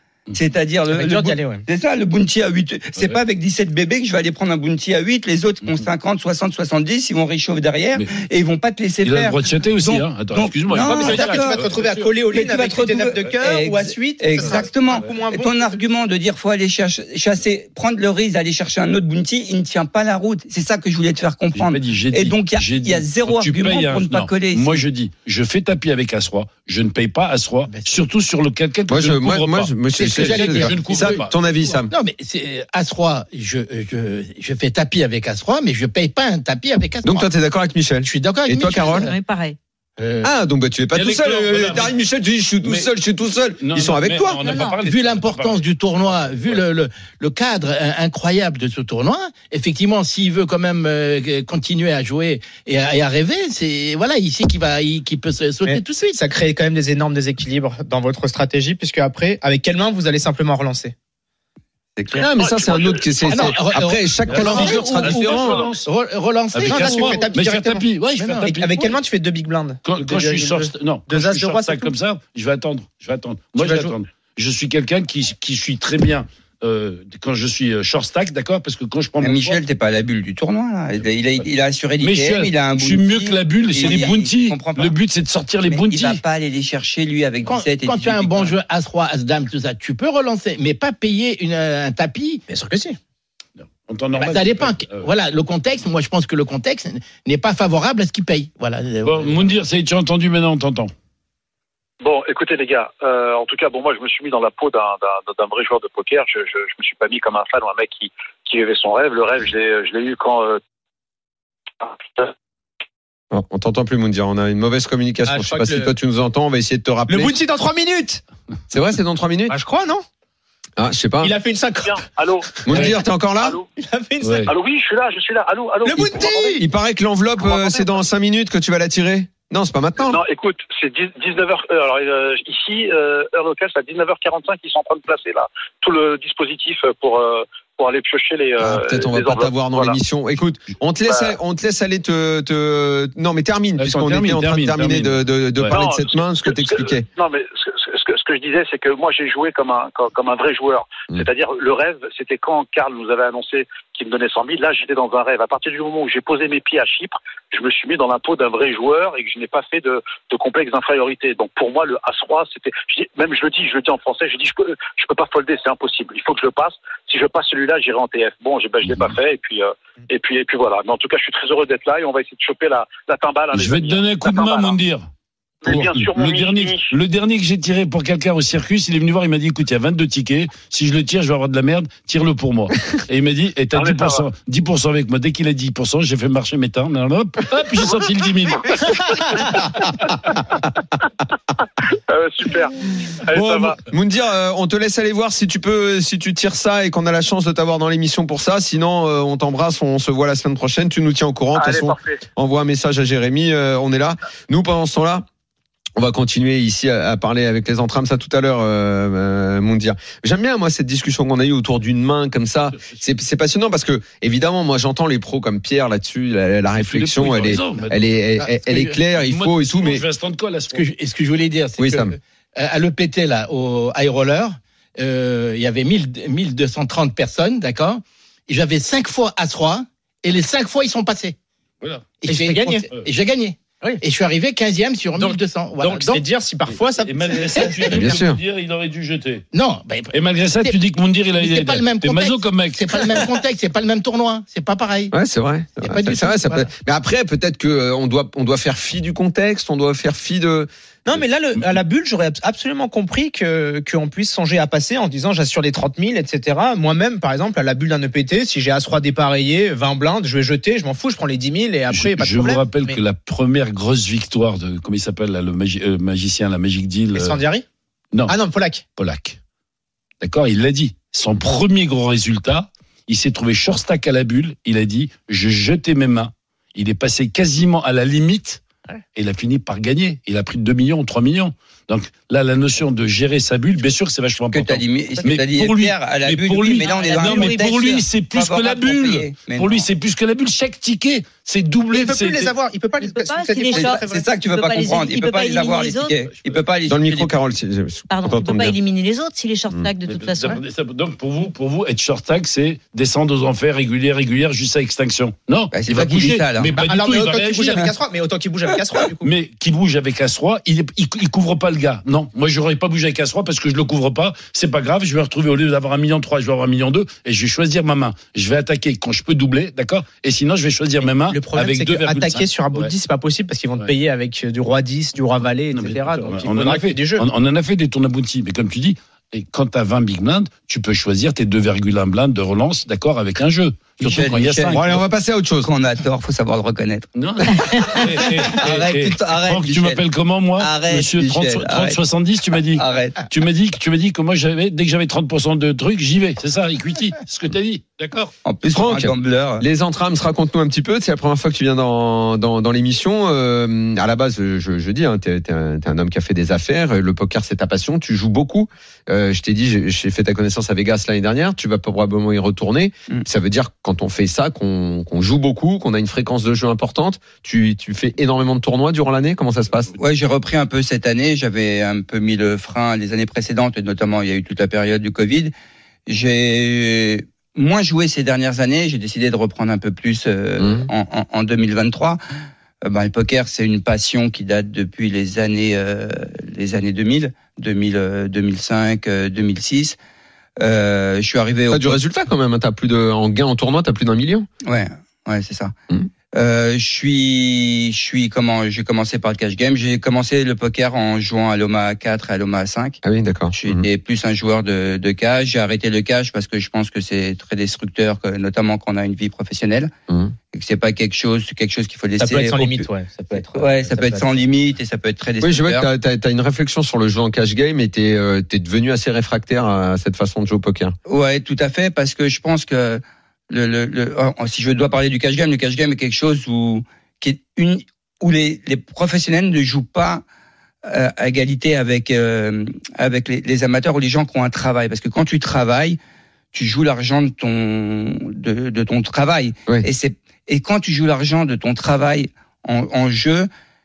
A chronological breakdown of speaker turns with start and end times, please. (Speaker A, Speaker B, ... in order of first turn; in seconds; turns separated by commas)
Speaker A: 0.3-11.6, Speaker B: 0.9-1.6, Speaker C: 9.0-12.1, Speaker B: 10.7-15.8, Speaker A: 12.3-24.9, Speaker C: 14.4-15.1, Speaker C: 21.5-31.3, Speaker D: 28.9-31.9, Speaker E: 29.9-37.2, Speaker D: 37.0-39.1, Speaker E: 38.0-39.1, Speaker F: 39.0-39.6, Speaker E: 40.0-40.3, Speaker D: 40.2-44.4, Speaker C: 40.9-41.9, Speaker C: 42.6-42.9, Speaker C: 43.6-46.6, Speaker F: 44.4-44.8, Speaker E: 44.6-56.1, Speaker B: 55.6-60.9, Speaker A: 62.0-62.2, Speaker D: 62.2-65.7, Speaker G: 62.3-63.5, Speaker E: 63.3-67.3, Speaker C: 64.3-65.9, Speaker C: 66.5-68.9, Speaker B: 66.7-67.8, Speaker E: 68.2-68.5, Speaker B: 68.4-71.9, Speaker C: 69.9-79.6, Speaker B: 73.6-73.9, Speaker A: 79.2-85.0, Speaker C: 82.0-86.2, Speaker A: 85.7-88.5, Speaker E: 87.4-92.4, Speaker B: 92.5-93.0, Speaker C: 93.6-95.1, Speaker E: 94.2-99.5, Speaker C: 99.0-100.9, Speaker G: 102.0-110.6, Speaker G: 111.8-112.3, Speaker D: 113.3-117.4, Speaker B: 115.2-115.9, Speaker B: 117.1-118.2, Speaker D: 118.7-119.6, Speaker B: 119.5-120.0, Speaker D: 120.8-121.3, Speaker B: 121.2-122.0, Speaker G: 121.8-123.6, Speaker D: 122.6-123.6, Speaker B: 123.8-124.5, Speaker C: 124.2-124.5, Speaker G: 124.5-126.6, Speaker B: 125.8-126.6, Speaker D: 126.0-130.2, Speaker G: 130.1-140.0, Speaker D: 138.6-147.1, Speaker G: 141.1-141.3, Speaker C: 143.8-145.7, Speaker G: 145.7-174.8, Speaker C: 173.5-175.1, Speaker G: 175.6-176.9, Speaker C: 175.6-189.4, Speaker G: 183.7-184.2, Speaker G: 188.7-189.9, Speaker G: 192.1-193.8, Speaker D: 193.3-205.2, Speaker G: 201.6-202.2, Speaker D: 205.9-220.0, Speaker C: 216.8-218.1, Speaker E: 218.4-219.0, Speaker C: 219.1-220.8, Speaker E: 220.7-231.4, Speaker D: 221.8-222.1, Speaker C: 231.8-232.1, Speaker E: 232.2-236.2, Speaker B: 232.2-232.9, Speaker C: 235.2-236.1, Speaker B: 236.0-237.8, Speaker C: 236.7-239.4, Speaker D: 237.9-238.4, Speaker E: 239.5-240.8, Speaker C: 240.1-243.2, Speaker E: 241.4-245.1, Speaker D: 245.1-251.2, Speaker E: 245.8-246.7, Speaker B: 251.1-263.0, Speaker C: 261.9-267.4, Speaker B: 267.1-267.6, Speaker B: 268.3-268.8, Speaker C: 269.0-269.4, Speaker C: 270.2-278.6, Speaker C: 279.1-292.5, Speaker A: 284.5-289.9, Speaker F: 286.8-287.8, Speaker B: 291.9-294.3, Speaker F: 293.0-296.2, Speaker A: 293.7-297.4, Speaker D: 296.9-298.8, Speaker F: 298.1-300.6, Speaker C: 300.1-307.9, Speaker A: 305.7-306.8, Speaker B: 306.7-309.3, Speaker C: 309.2-322.9, Speaker B: 321.1-327.2, Speaker C: 325.7-335.0, Speaker A: 334.0-334.9, Speaker D: 334.7-335.7, Speaker A: 335.6-340.0, Speaker C: 337.1-348.3, Speaker D: 338.6-339.8, Speaker A: 340.6-342.0, Speaker A: 342.7-343.2, Speaker A: 348.4-349.7, Speaker D: 348.6-369.9, Speaker A: 370.0-375.5, Speaker A: 376.1-382.2, Speaker D: 380.6-380.9, Speaker A: 382.8-390.0, Speaker A: 390.6-392.0, Speaker D: 391.7-394.5, Speaker A: 394.6-395.7, Speaker A: 396.3-403.0, Speaker D: 403.0-403.9, Speaker A: 403.5-409.9, Speaker D: 410.1-410.3, Speaker A: 410.5-415.9, Speaker B: 412.2-414.4, Speaker D: 415.4-420.9, Speaker A: 421.1-430.2, Speaker A: 430.8-436.0, Speaker A: 436.5-443.5